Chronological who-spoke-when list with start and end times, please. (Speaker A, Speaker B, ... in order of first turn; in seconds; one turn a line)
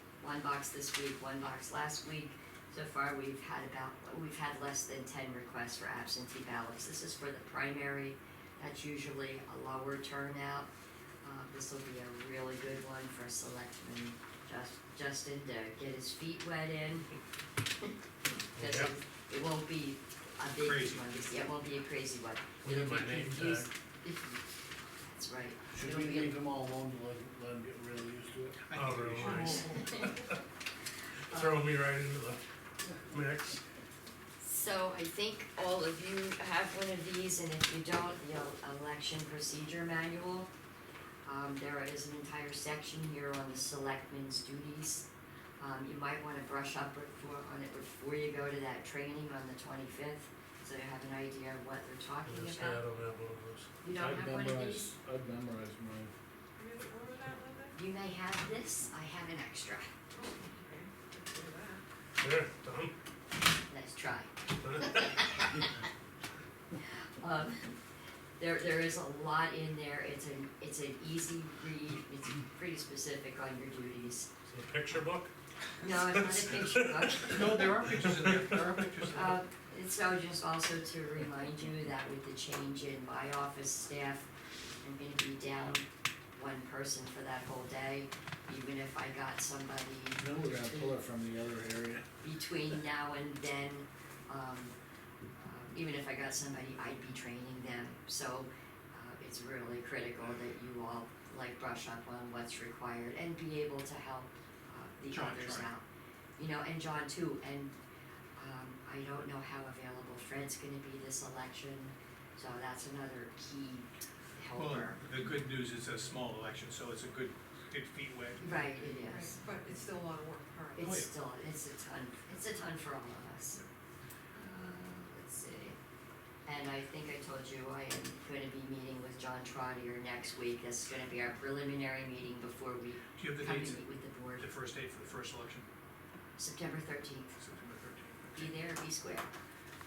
Speaker A: 0.2-10.7
Speaker A: 11.2-17.1
Speaker A: 18.6-24.4
Speaker B: 18.6-18.9
Speaker C: 20.6-21.0
Speaker B: 22.6-23.7
Speaker A: 25.0-26.3
Speaker D: 25.7-28.6
Speaker C: 28.7-29.7
Speaker B: 28.7-30.3
Speaker A: 29.3-30.1
Speaker B: 31.3-33.6
Speaker A: 34.4-40.5
Speaker A: 41.2-45.1
Speaker A: 45.6-52.8
Speaker B: 52.2-53.7
Speaker A: 53.8-54.9
Speaker D: 53.9-56.1
Speaker E: 56.6-57.8
Speaker A: 57.8-59.9
Speaker E: 60.1-61.8
Speaker B: 62.2-62.9
Speaker A: 63.7-65.7
Speaker B: 64.7-65.2
Speaker A: 67.2-67.7
Speaker A: 68.4-74.3
Speaker B: 74.5-75.3
Speaker A: 75.8-77.7
Speaker B: 75.9-77.3
Speaker C: 77.2-79.4
Speaker B: 78.3-78.6
Speaker A: 79.1-84.3
Speaker A: 84.8-90.9
Speaker D: 90.2-92.0
Speaker A: 92.2-94.7
Speaker A: 95.4-105.8
Speaker C: 105.1-105.7
Speaker A: 106.4-107.8
Speaker A: 108.4-115.0
Speaker C: 114.6-118.9
Speaker A: 118.4-119.4
Speaker E: 118.4-120.9
Speaker A: 120.8-123.6
Speaker C: 120.8-121.1
Speaker A: 124.3-125.8
Speaker A: 126.5-134.4
Speaker C: 133.2-133.8
Speaker C: 134.4-135.7
Speaker A: 136.4-137.4
Speaker C: 137.4-138.5
Speaker A: 138.3-139.3